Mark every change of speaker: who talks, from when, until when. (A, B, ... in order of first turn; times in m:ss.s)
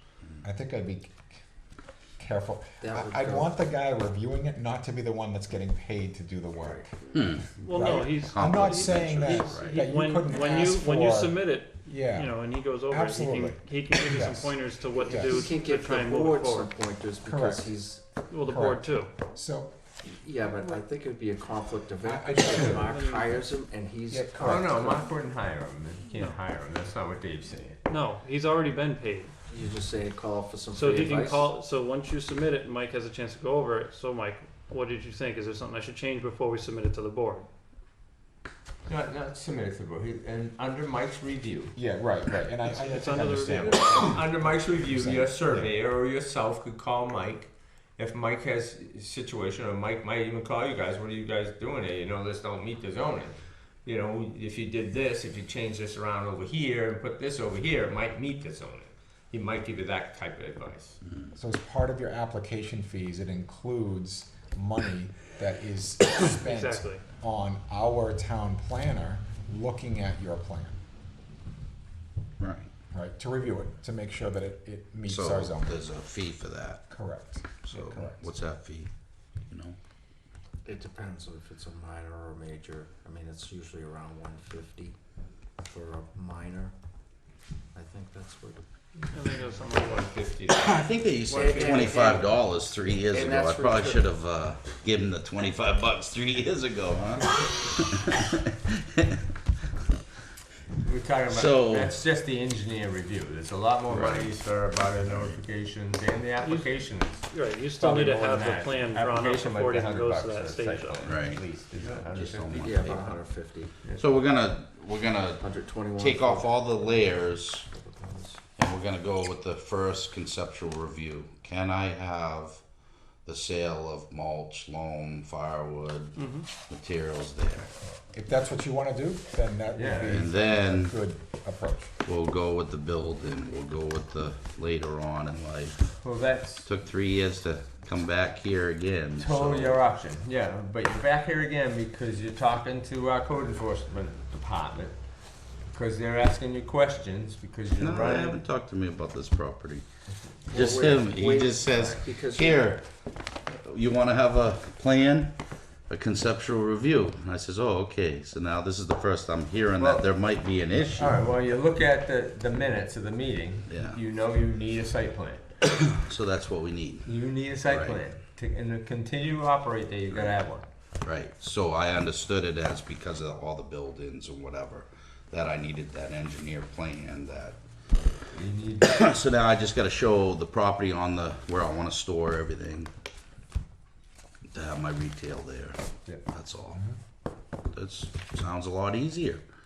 0:00.4-0:01.4 A
0:02.2-0:07.0 A
0:02.8-0:03.6 B
0:06.6-0:06.9 B
0:07.1-0:09.8 C
0:07.6-0:16.7 D
0:07.7-0:15.5 A
0:09.2-0:09.6 B
0:15.2-0:18.0 B
0:17.2-0:19.7 A
0:18.3-0:19.1 D
0:20.0-0:25.1 B
0:22.0-0:23.0 A
0:22.5-0:23.4 D
0:24.1-0:24.7 A
0:24.4-0:27.8 E
0:26.1-0:26.4 D
0:27.9-0:29.3 D
0:29.5-0:31.5 B
0:30.7-0:37.5 D
0:38.9-0:41.8 E
0:41.8-0:45.7 A
0:42.8-0:44.2 D
0:43.9-1:01.0 E
1:01.4-1:10.8 A
1:06.3-1:07.0 D
1:12.4-1:12.7 C
1:12.9-1:15.9 A
1:15.1-1:16.9 C
1:16.9-1:18.3 A
1:17.6-1:18.9 C
1:19.5-1:19.8 C
1:20.6-1:25.0 B
1:25.6-1:26.7 B
1:27.7-1:28.6 B
1:29.1-1:30.1 D
1:29.4-1:32.3 E
1:30.5-1:39.2 C
1:31.3-1:32.4 B
1:33.1-1:34.1 B
1:40.8-1:53.1 E
1:41.3-1:42.0 C
1:43.9-1:44.3 C
1:45.0-1:45.4 C
1:46.4-1:46.8 D
1:47.3-1:51.1 D
1:51.0-1:53.2 C
1:52.6-1:53.7 B
1:53.8-1:54.1 E
1:53.9-1:57.7 C
1:55.4-1:58.4 B
1:58.6-2:02.6 C
2:03.2-2:07.7 C
2:06.2-2:06.5 D
2:08.1-2:11.9 A
2:09.7-2:10.3 E
2:10.1-2:11.0 C
2:12.0-2:16.0 C
2:16.0-2:16.7 E
2:16.6-2:19.8 C
2:19.2-2:25.0 E
2:25.7-2:28.4 E
2:27.8-2:29.8 C
2:30.5-2:32.7 B
2:30.5-2:32.8 C
2:33.5-2:35.3 C
2:35.9-2:41.2 C
2:39.8-2:40.1 E
2:41.0-2:45.5 E
2:43.7-2:44.0 C
2:45.9-2:48.0 C
2:47.1-2:50.7 E
2:50.1-2:50.4 C
2:51.0-2:57.6 C
2:58.3-2:59.1 E
2:58.8-3:02.9 C
3:04.5-3:06.8 C
3:07.7-3:09.4 C